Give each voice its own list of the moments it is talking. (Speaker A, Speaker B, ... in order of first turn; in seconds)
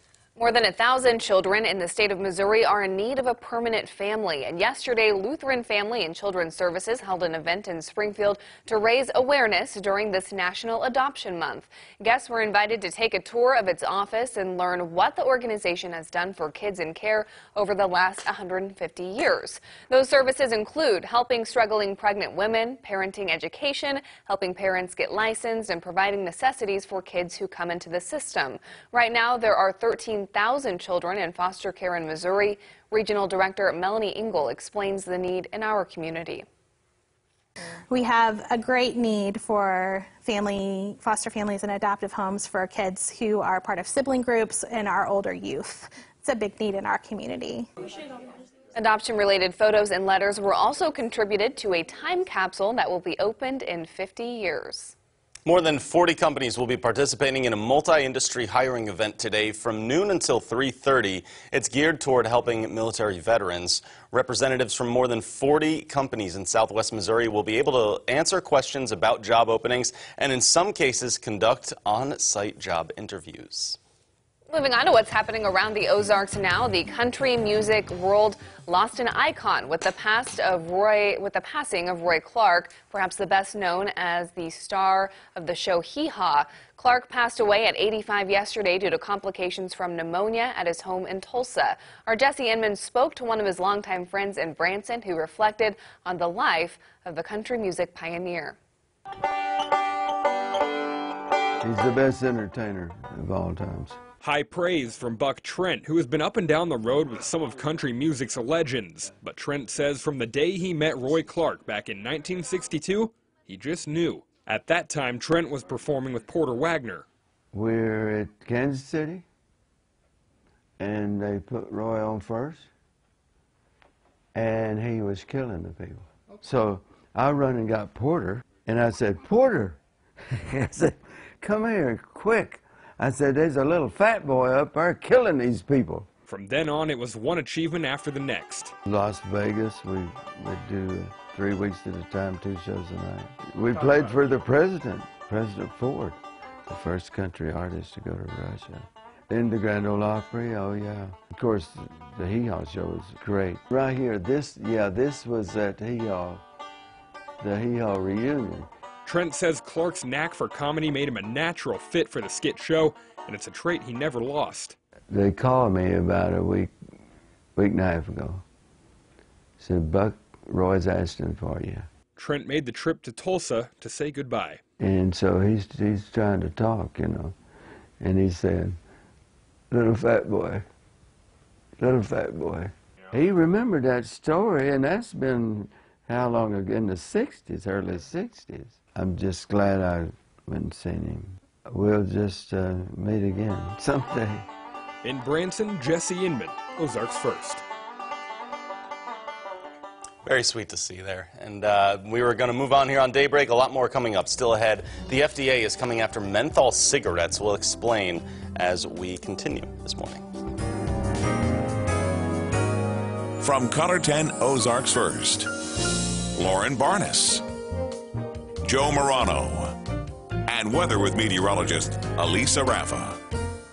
Speaker A: 0.4-36.4, 48.8-54.9, 74.5-98.6
Speaker B: 37.9-47.7
Speaker C: 55.4-73.8, 200.2-210.2
Speaker D: 101.6-104.0, 117.5-119.2, 120.8-122.7, 124.3-129.8, 130.3-136.1, 138.9-156.4, 157.4-158.7, 165.1-166.7, 167.6-168.4, 169.6-171.9, 174.8-177.3, 178.0-178.8, 179.7-180.6, 181.8-194.4
Speaker E: 104.2-117.0, 136.3-138.7, 159.1-164.8, 172.2-174.6, 195.0-197.6
Speaker F: 213.4-215.5, 216.4-217.4, 218.6-219.7, 220.5-223.2